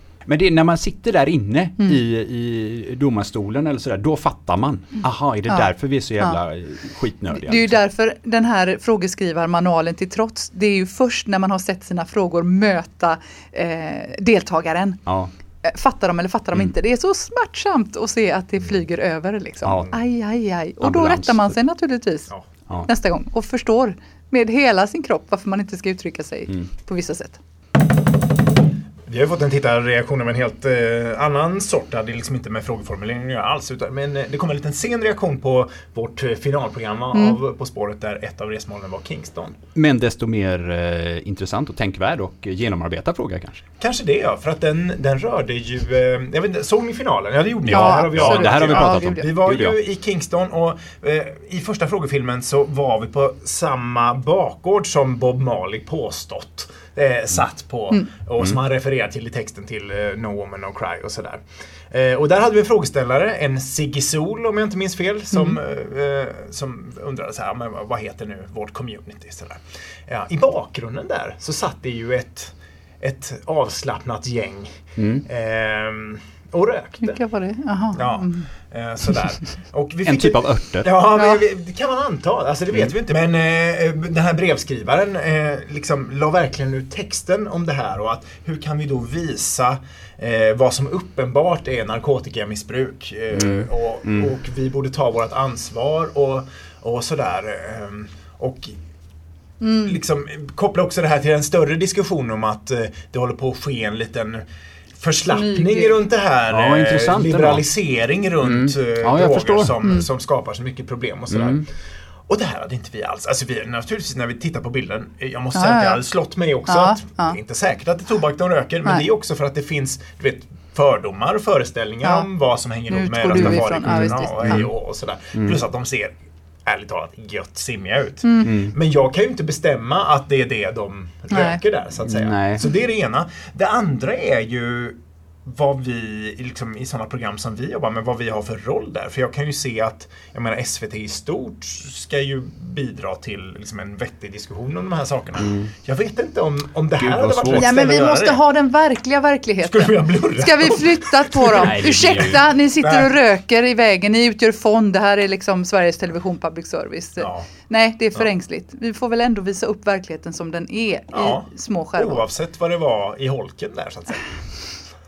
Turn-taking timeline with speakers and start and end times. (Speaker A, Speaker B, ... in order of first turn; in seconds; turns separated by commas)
Speaker A: 0.3-7.8, Speaker B: 5.5-6.4, Speaker B: 7.3-15.0, Speaker B: 15.6-22.3, Speaker A: 19.6-19.9, Speaker A: 20.8-21.5, Speaker B: 22.9-27.4, Speaker C: 29.1-39.6, Speaker B: 37.1-37.4, Speaker A: 39.8-43.7, Speaker C: 43.8-77.2, Speaker A: 47.7-49.8, Speaker B: 47.7-49.4, Speaker A: 75.0-75.2, Speaker B: 77.0-78.5, Speaker C: 78.0-98.8, Speaker A: 80.0-80.9, Speaker B: 81.2-81.4, Speaker A: 93.3-94.3, Speaker B: 99.6-100.0, Speaker C: 99.8-104.5, Speaker C: 105.0-111.7, Speaker B: 105.3-106.0, Speaker A: 106.5-107.7, Speaker A: 108.4-109.8, Speaker A: 111.3-111.6, Speaker C: 112.3-148.4, Speaker B: 115.5-116.0, Speaker B: 116.7-117.4, Speaker B: 122.9-124.7, Speaker A: 123.3-124.7, Speaker A: 125.3-125.6, Speaker B: 128.2-128.5, Speaker A: 128.4-128.8, Speaker B: 131.3-131.6, Speaker A: 132.1-132.7, Speaker A: 145.4-145.7, Speaker A: 147.0-147.8, Speaker B: 147.5-162.2, Speaker C: 149.6-153.1, Speaker A: 151.5-152.4, Speaker C: 157.2-157.5, Speaker C: 161.1-164.2